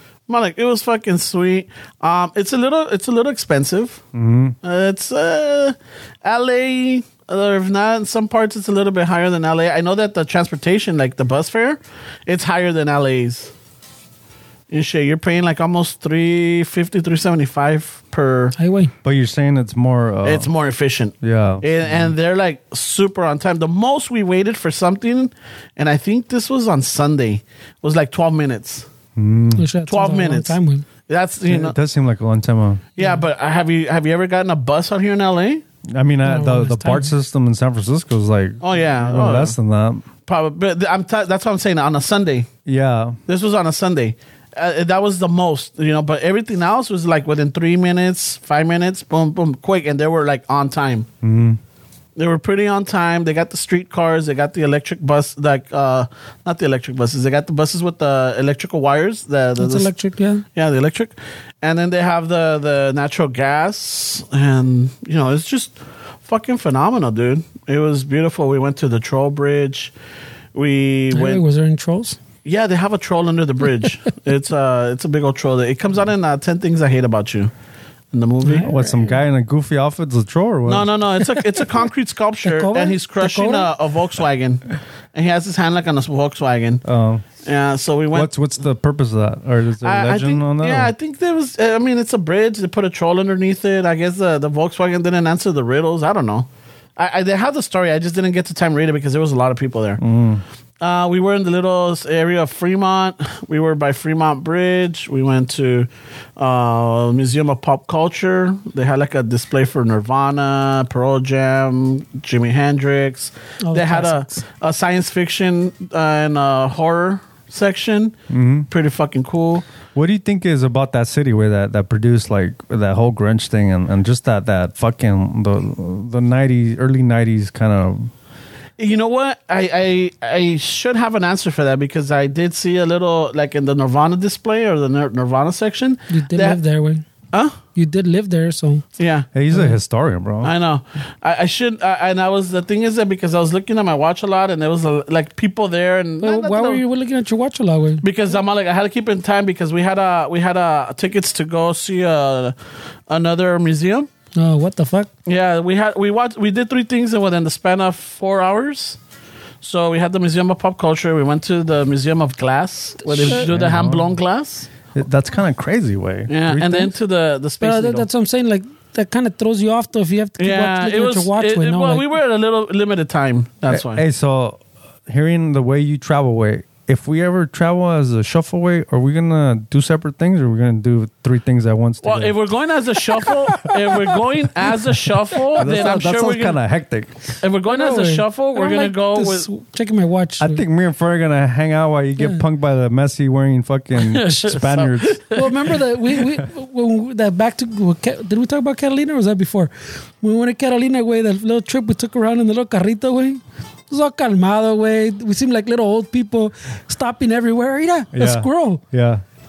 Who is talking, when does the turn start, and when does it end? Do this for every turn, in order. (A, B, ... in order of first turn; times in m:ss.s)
0:00.3-0:04.0 A
0:04.1-0:04.6 B
0:04.6-0:13.5 A
0:14.7-0:18.6 A
0:18.6-0:18.9 C
0:19.0-0:20.5 B
0:20.2-0:28.9 A
0:21.2-0:22.1 B
0:29.2-0:29.7 B
0:29.6-0:30.8 C
0:29.9-0:31.8 A
0:31.5-0:32.9 B
0:33.0-0:35.6 A
0:35.9-0:40.0 B
0:36.2-0:37.1 C
0:38.6-0:39.6 A
0:40.3-0:42.5 A
0:42.7-0:43.2 B
0:43.3-0:51.1 A
0:51.2-0:51.6 B
0:52.2-0:59.9 A
0:59.6-1:00.4 C
1:00.5-1:09.9 A
1:10.6-1:11.4 A
1:11.1-1:12.2 C
1:12.4-1:17.5 A
1:18.1-1:18.7 A
1:18.4-1:19.2 C
1:18.7-1:20.9 B
1:20.7-1:26.8 A
1:22.4-1:23.7 C
1:26.8-1:27.2 B
1:27.4-1:28.3 A
1:28.1-1:30.9 B
1:29.8-1:40.0 A
1:40.0-1:40.4 B
1:40.8-1:58.2 A
1:53.6-1:54.4 C
1:58.3-1:58.7 B
1:58.7-1:59.6 A
2:00.0-2:08.1 B
2:08.8-2:16.6 A
2:16.1-2:17.0 C
2:17.3-2:17.6 A
2:17.8-2:18.8 C
2:19.0-2:19.3 A
2:19.3-2:20.5 B
2:20.4-2:26.8 A
2:26.2-2:28.0 C
2:28.0-2:32.6 A
2:33.1-2:34.1 A
2:34.4-2:35.1 C
2:35.3-2:39.0 A
2:39.6-2:44.7 A
2:43.1-2:43.5 C
2:43.3-2:44.1 B
2:45.0-2:46.9 B
2:46.3-2:48.1 A
2:47.6-2:52.1 C
2:50.4-2:54.0 A
2:53.7-3:02.4 B
3:02.0-3:06.6 A
3:05.6-3:07.3 B
3:07.4-3:09.5 A
3:07.7-3:10.6 C
3:10.4-3:15.2 B
3:14.0-3:15.4 A
3:15.3-3:28.8 C
3:28.1-3:29.2 B